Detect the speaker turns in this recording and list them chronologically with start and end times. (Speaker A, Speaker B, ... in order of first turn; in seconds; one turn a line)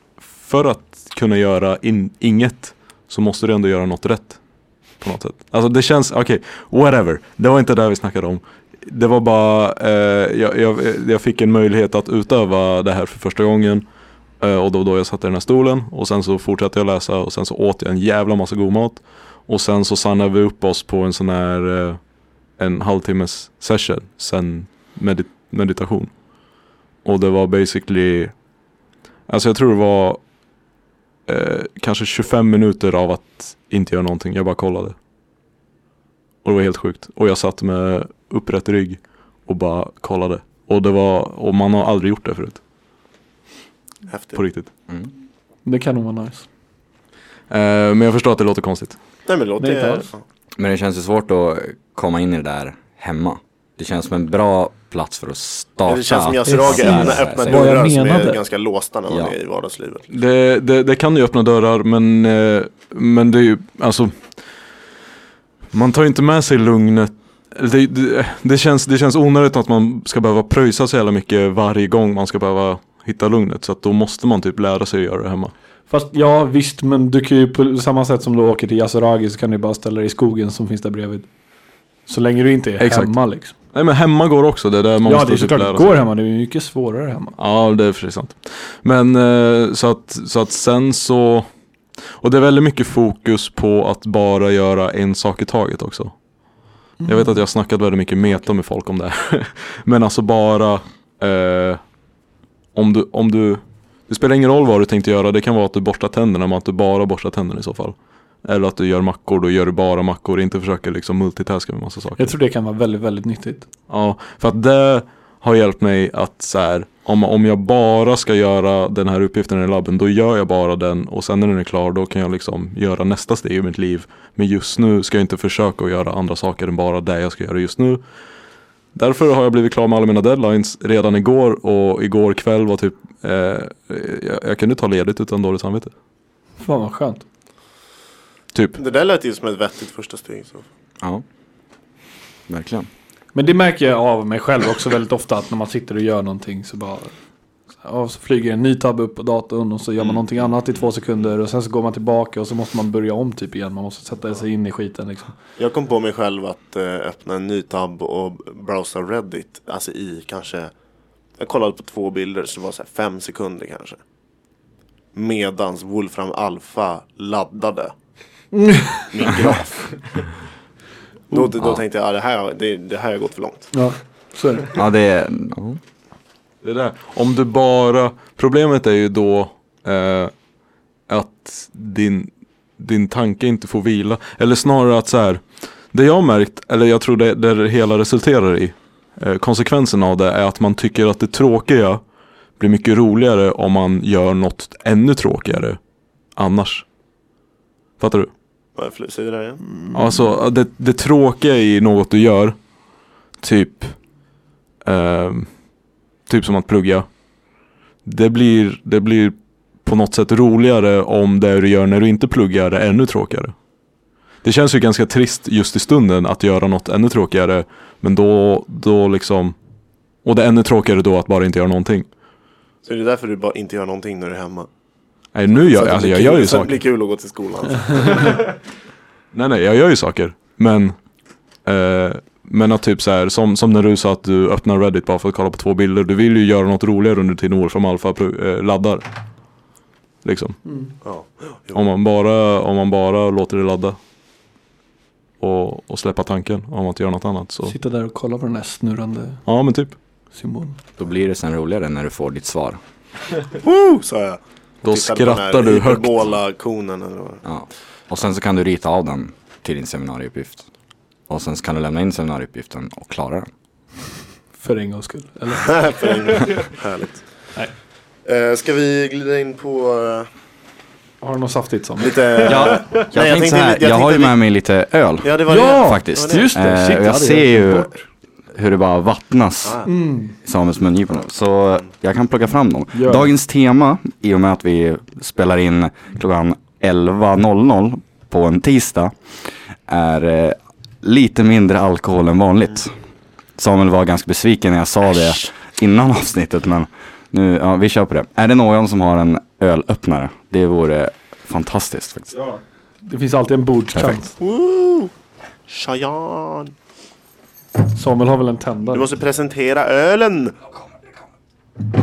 Speaker A: 0.4-4.4
Speaker A: 5.0-13.8
Speaker A: 14.4-22.0
Speaker A: 22.6-26.1
Speaker A: 27.0-28.3
Speaker A: 29.3-30.2
Speaker A: 31.3-35.0
Speaker A: 36.4-42.6
Speaker B: 44.1-44.4
Speaker A: 44.4-44.7
Speaker C: 45.6-46.5
Speaker A: 47.5-49.0
Speaker B: 49.3-50.2
Speaker C: 49.6-50.1
Speaker D: 50.6-57.8
Speaker B: 55.9-60.1
Speaker C: 56.5-58.4
Speaker D: 59.1-59.3
Speaker A: 60.1-64.2
Speaker A: 65.7-75.5
Speaker C: 75.9-81.3
Speaker C: 82.1-83.5
Speaker A: 82.8-83.1
Speaker A: 83.7-86.0
Speaker C: 85.0-87.4
Speaker A: 87.4-91.5
Speaker A: 92.2-96.1
Speaker C: 97.0-97.3
Speaker A: 97.0-101.8
Speaker A: 102.8-112.3
Speaker C: 112.2-113.7
Speaker A: 113.9-128.0
Speaker A: 128.9-135.9
Speaker C: 136.6-137.2
Speaker B: 138.8-140.7
Speaker D: 142.5-142.9
Speaker C: 143.3-147.1
Speaker C: 147.8-155.3
Speaker B: 155.6-160.7
Speaker B: 161.4-164.0
Speaker B: 165.1-167.9
Speaker C: 168.5-169.1
Speaker B: 169.1-170.1
Speaker B: 171.3-173.7
Speaker C: 173.7-174.7
Speaker D: 174.7-175.8
Speaker A: 176.6-180.3
Speaker A: 181.1-185.4
Speaker A: 185.9-192.0
Speaker A: 192.6-195.8
Speaker A: 196.4-196.8
Speaker A: 198.0-198.3
Speaker B: 198.8-199.6
Speaker A: 199.9-202.6
Speaker A: 203.4-204.0
Speaker A: 204.8-205.5
Speaker A: 206.3-207.1
Speaker A: 208.1-213.5
Speaker A: 214.4-219.6
Speaker A: 220.2-222.1
Speaker B: 222.8-224.7
Speaker A: 225.3-226.8
Speaker B: 225.6-228.4
Speaker A: 229.3-230.9
Speaker A: 231.7-239.0
Speaker A: 240.2-240.6
Speaker B: 241.0-241.8
Speaker A: 241.7-244.0
Speaker A: 245.4-247.7
Speaker C: 247.7-249.4
Speaker A: 249.5-249.9
Speaker C: 250.3-250.8
Speaker D: 251.0-252.8
Speaker B: 253.6-257.4
Speaker A: 254.8-256.2
Speaker D: 257.4-260.6
Speaker D: 261.3-263.5
Speaker C: 264.6-265.7
Speaker B: 265.6-267.2
Speaker B: 268.2-270.3
Speaker C: 271.2-272.8
Speaker B: 272.0-274.4
Speaker D: 272.4-277.9
Speaker B: 275.2-276.5
Speaker C: 275.5-278.0
Speaker D: 278.5-279.9
Speaker C: 279.9-280.3
Speaker D: 280.4-289.1
Speaker C: 282.9-283.3
Speaker D: 289.9-292.9
Speaker D: 293.6-302.3
Speaker C: 303.1-304.3
Speaker D: 303.9-304.2
Speaker B: 304.4-305.1
Speaker B: 305.7-306.7
Speaker C: 307.9-309.1
Speaker B: 308.9-310.6